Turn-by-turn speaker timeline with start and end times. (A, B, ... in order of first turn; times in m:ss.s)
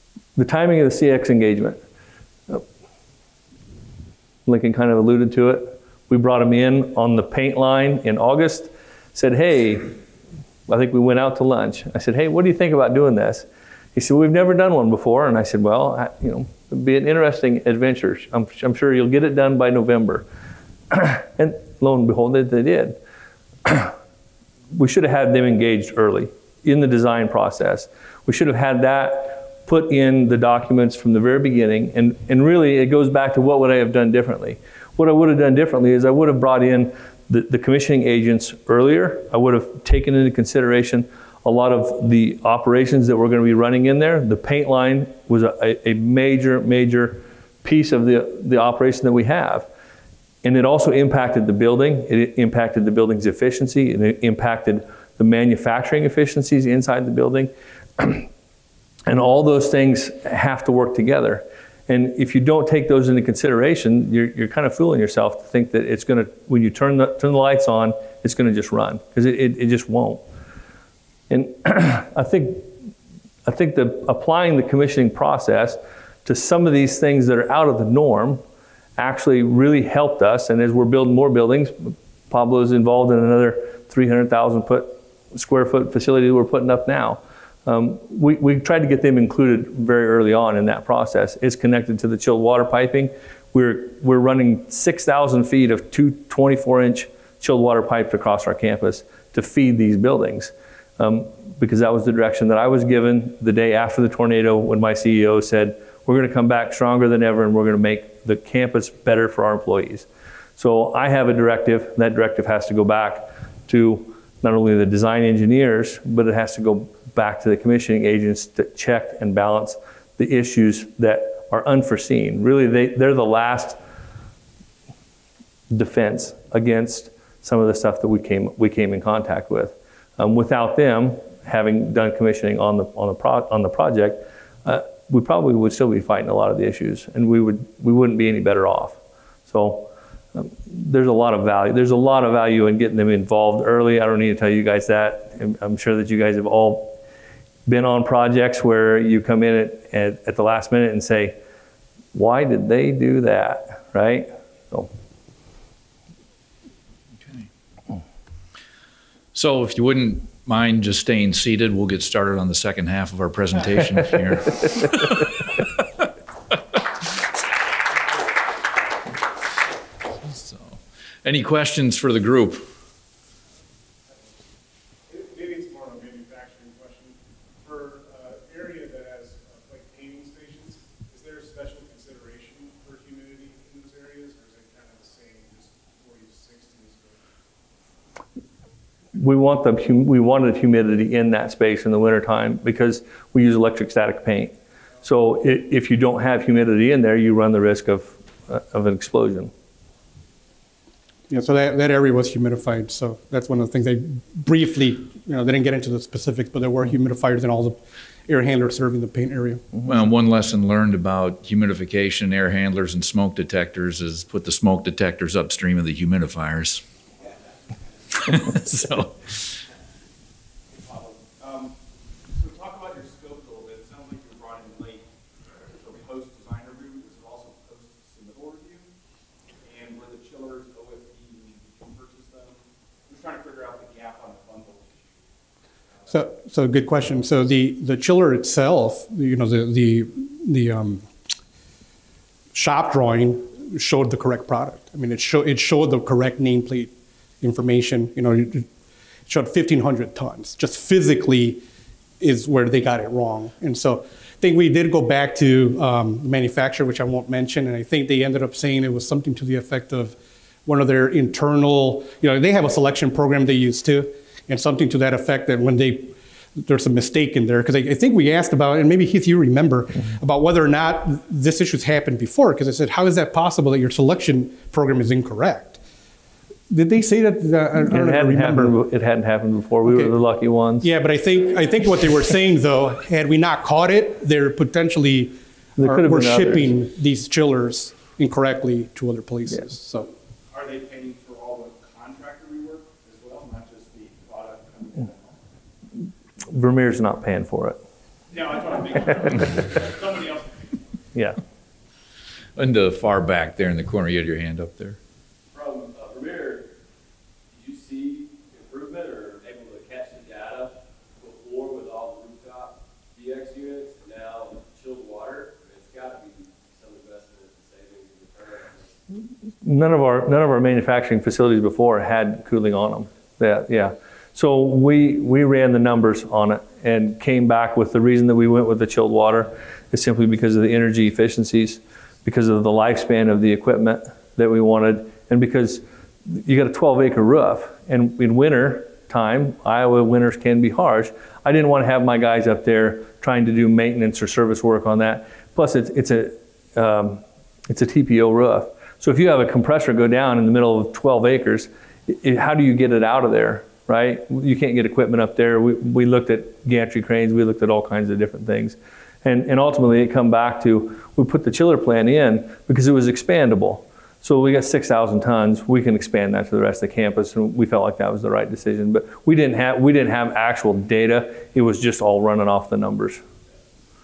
0:00.4-0:01.8 A
0:04.5-0:10.0 A
0:10.7-0:20.3 A
0:20.9-0:23.0 A
0:23.6-0:24.0 A
0:24.7-0:49.7 A
0:50.4-0:58.3 A
0:59.1-1:10.2 A
1:11.3-1:12.7 A
1:13.4-1:18.4 A
1:19.0-2:03.8 A
2:05.7-2:27.0 A
2:27.7-2:31.4 A
2:32.1-2:34.9 A
2:39.4-2:45.3 B
2:50.2-2:52.7 B
2:55.1-3:07.2 C
3:09.1-3:19.5 A
3:21.3-3:29.6 D
3:29.8-3:36.8 B
3:38.2-3:39.6 B
3:40.7-3:41.7 C
3:42.3-3:45.1 C
3:45.6-3:48.9 C
3:49.6-3:55.2 C
3:56.0-3:56.3 C
3:56.1-4:01.1 D
4:02.5-4:08.7 D
4:09.3-4:11.6 D
4:12.2-4:20.2 D
4:20.7-4:35.8 D
4:36.7-4:38.8 D
4:37.8-4:40.9 A
4:39.8-4:40.1 D
4:40.8-4:50.1 D
4:45.8-4:46.7 A
4:50.5-4:55.5 C
4:56.5-4:57.8 A
4:58.3-5:00.8 C
5:01.1-5:01.4 A
5:02.6-5:05.0 B
5:05.5-5:06.7 E
5:07.5-5:19.0 E
5:19.6-6:13.2 A